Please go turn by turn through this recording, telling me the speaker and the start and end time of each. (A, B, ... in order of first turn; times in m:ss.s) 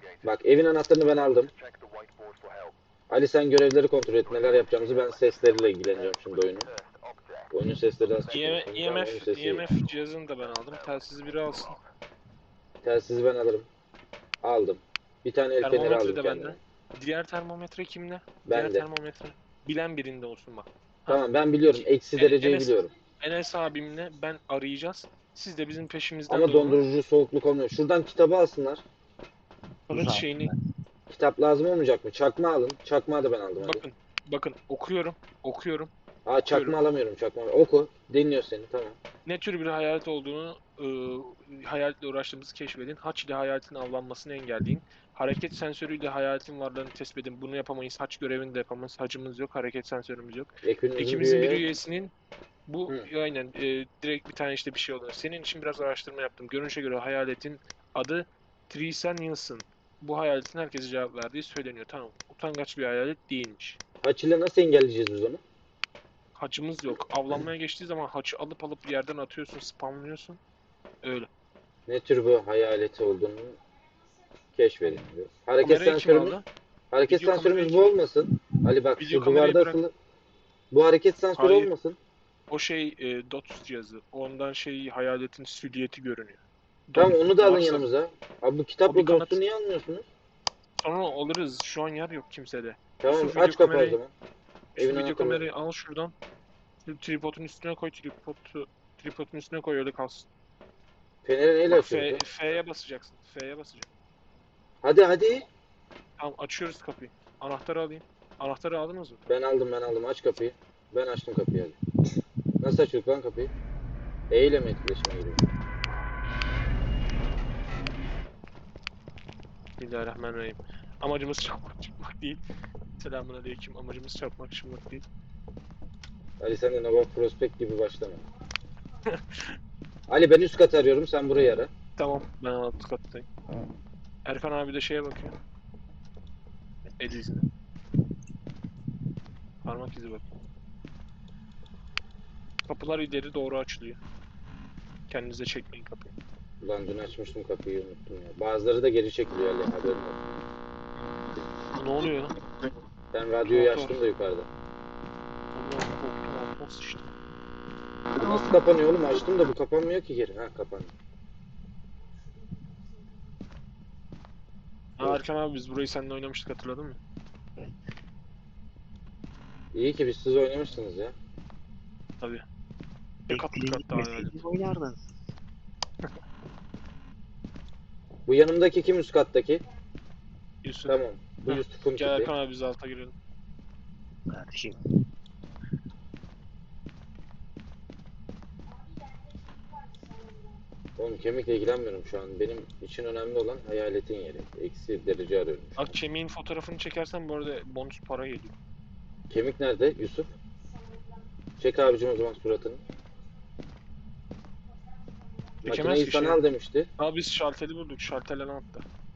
0:00.2-0:01.5 A
0:03.1-0:06.7 A
0:07.5-0:09.7 A
0:08.3-0:11.8 B
0:12.8-0:13.7 A
0:14.4-0:16.6 A
0:15.6-0:26.8 B
0:18.4-0:18.9 A
0:21.0-0:22.9 A
0:26.3-0:28.8 A
0:29.9-0:30.5 B
0:29.9-0:30.6 C
0:31.1-0:33.8 A
0:33.6-0:35.9 B
0:36.2-0:39.0 A
0:36.4-0:36.8 B
0:39.2-0:52.1 B
0:50.6-0:51.6 A
0:52.7-1:03.8 B
1:04.0-1:05.4 A
1:06.4-1:10.4 B
1:11.0-1:11.3 B
1:11.9-1:13.6 A
1:14.5-1:16.4 A
1:15.6-1:16.4 B
1:16.9-1:19.9 A
1:17.1-1:17.9 B
1:19.0-1:19.8 B
1:20.7-1:22.0 A
1:21.4-1:21.7 B
1:22.5-1:27.8 B
1:26.9-1:30.0 A
1:28.9-1:29.4 B
1:30.8-1:34.0 B
1:33.0-1:34.1 A
1:34.8-1:35.4 A
1:34.8-1:36.1 B
1:36.8-1:40.3 B
1:41.2-1:42.2 A
1:41.7-1:43.9 B
1:44.8-1:45.5 A
1:46.2-1:49.3 B
1:49.3-1:51.8 A
1:52.6-1:53.5 A
1:54.3-1:55.4 A
1:59.8-2:02.4 B
2:03.0-2:05.0 B
2:06.4-2:08.2 A
2:09.1-2:09.5 B
2:10.1-2:11.7 A
2:12.0-2:13.2 B
2:14.2-2:15.3 B
2:17.0-2:17.4 B
2:19.6-2:20.2 B
2:22.7-2:24.0 B
2:25.1-2:26.0 B
2:26.6-2:30.3 A
2:31.7-2:32.3 B
2:33.1-2:34.5 A
2:33.4-2:34.0 B
2:35.5-2:37.1 B
2:38.1-2:40.9 A
2:45.0-2:47.0 B
2:49.7-2:51.1 A
2:53.3-2:54.4 B
2:53.3-2:55.1 C
2:58.3-2:59.6 A
3:00.6-3:03.1 B
3:00.9-3:02.3 A
3:04.3-3:04.8 C
3:11.0-3:16.0 A
3:15.8-3:18.5 B
3:19.3-3:20.3 A
3:21.6-3:22.8 A
3:25.6-3:26.4 B
3:25.6-3:26.9 A
3:27.0-3:28.8 B